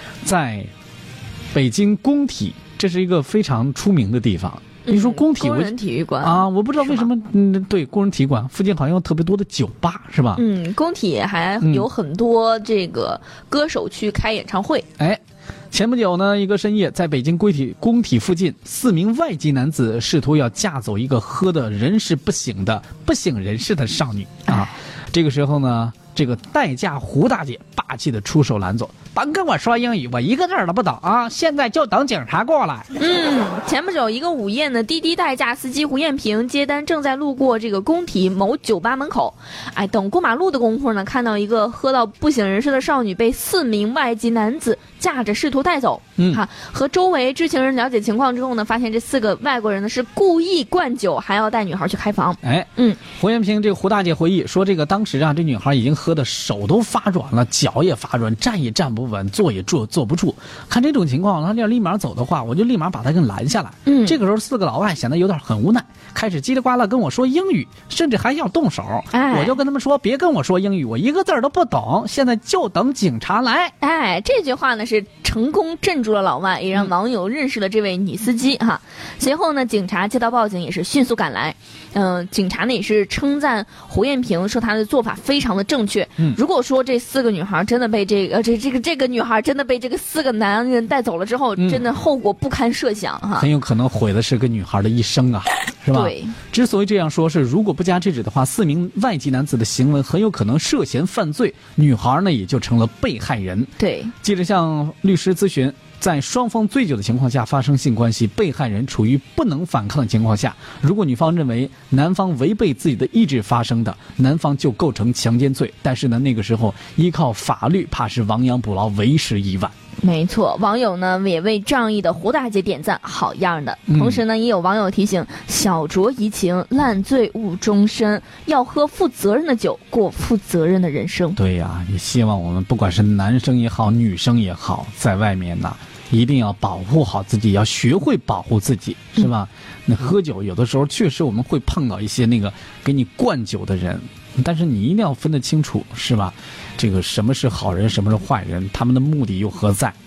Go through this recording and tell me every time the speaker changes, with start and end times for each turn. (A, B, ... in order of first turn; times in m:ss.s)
0:00.2-0:00.7 A
0:01.5-0:10.4 A
0:04.8-0:07.1 B
0:10.4-0:14.9 B
0:11.6-0:11.9 A
0:15.7-0:32.9 A
0:33.0-0:53.0 B
0:46.2-0:46.4 A
0:52.4-1:13.7 A
1:03.9-1:04.2 B
1:09.1-1:09.6 B
1:13.8-1:33.5 B
1:33.4-1:59.7 A
1:35.9-1:36.4 B
1:43.8-1:44.1 B
2:00.0-2:11.4 B
2:03.9-2:04.2 A
2:11.4-2:30.0 A